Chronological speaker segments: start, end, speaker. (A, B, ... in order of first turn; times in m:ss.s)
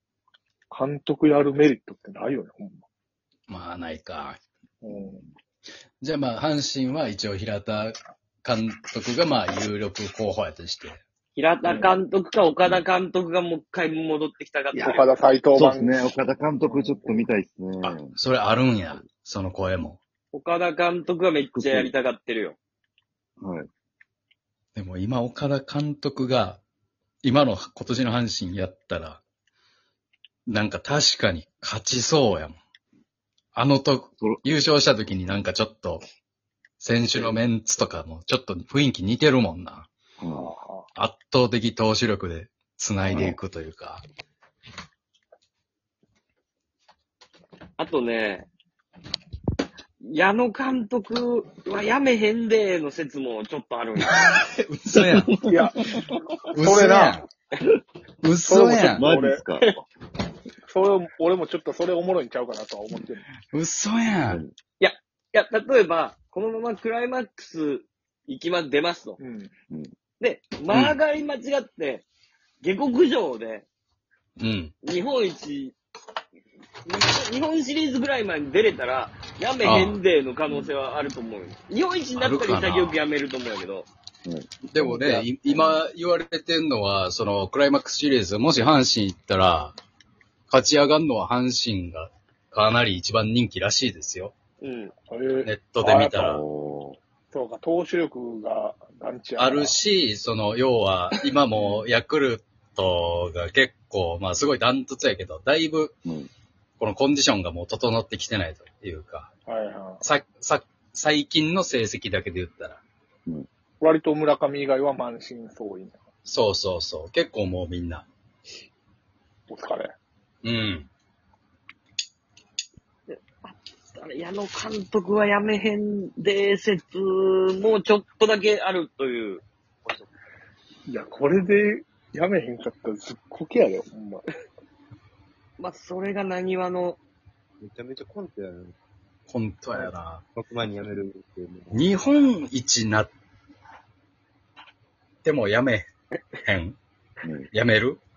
0:00.7-0:02.8 A
0:03.5-0:04.4 B
0:04.8-0:05.2 A
0:06.0-0:11.0 B
0:11.3-0:15.0 C
0:11.6-0:12.0 A
0:14.7-0:17.3 A
0:15.5-0:18.2 D
0:17.8-0:20.0 B
0:20.3-0:22.6 C
0:21.5-0:21.9 D
0:23.4-0:23.7 D
0:24.7-0:26.6 B
0:27.2-0:29.2 B
0:30.5-0:32.6 B
0:33.5-0:36.0 B
0:34.2-0:34.5 D
0:36.8-0:39.9 B
0:40.2-0:40.5 D
0:40.3-0:40.9 A
0:41.0-0:44.0 B
0:43.0-0:43.4 D
0:47.8-0:48.5 C
0:50.0-0:54.2 C
0:54.0-0:55.3 B
0:54.9-0:56.0 D
0:55.4-0:55.9 A
0:56.5-0:57.2 B
0:56.6-0:57.3 A
0:58.2-0:59.0 B
0:58.4-0:59.4 A
0:58.9-0:59.9 D
1:00.7-1:03.3 A
1:03.5-1:04.4 B
1:04.3-1:04.5 D
1:04.8-1:09.2 C
1:09.2-1:09.5 A
1:10.2-1:12.1 C
1:10.7-1:11.0 B
1:12.6-1:13.7 C
1:14.4-1:14.7 B
1:14.8-1:15.8 C
1:16.8-1:23.9 C
1:19.6-1:20.0 B
1:20.5-1:20.7 D
1:22.2-1:23.0 B
1:24.2-1:25.8 D
1:24.7-1:29.8 B
1:30.5-1:34.3 B
1:34.6-1:34.9 C
1:35.1-1:36.2 A
1:35.4-1:36.4 B
1:36.1-1:37.0 D
1:37.3-1:39.8 A
1:39.4-1:46.0 B
1:41.5-1:41.9 A
1:46.0-1:46.3 D
1:46.8-1:49.3 B
1:49.5-1:50.0 A
1:50.0-1:52.8 B
1:53.8-1:56.0 A
1:56.2-1:58.1 B
1:59.5-1:59.9 A
2:00.4-2:00.9 B
2:03.1-2:09.4 C
2:09.8-2:10.1 E
2:10.9-2:14.2 A
2:15.6-2:17.0 C
2:17.6-2:18.7 E
2:19.3-2:20.2 B
2:19.7-2:22.0 E
2:21.7-2:23.1 B
2:25.2-2:25.9 B
2:26.4-2:26.8 B
2:27.2-2:27.5 D
2:27.5-2:28.0 B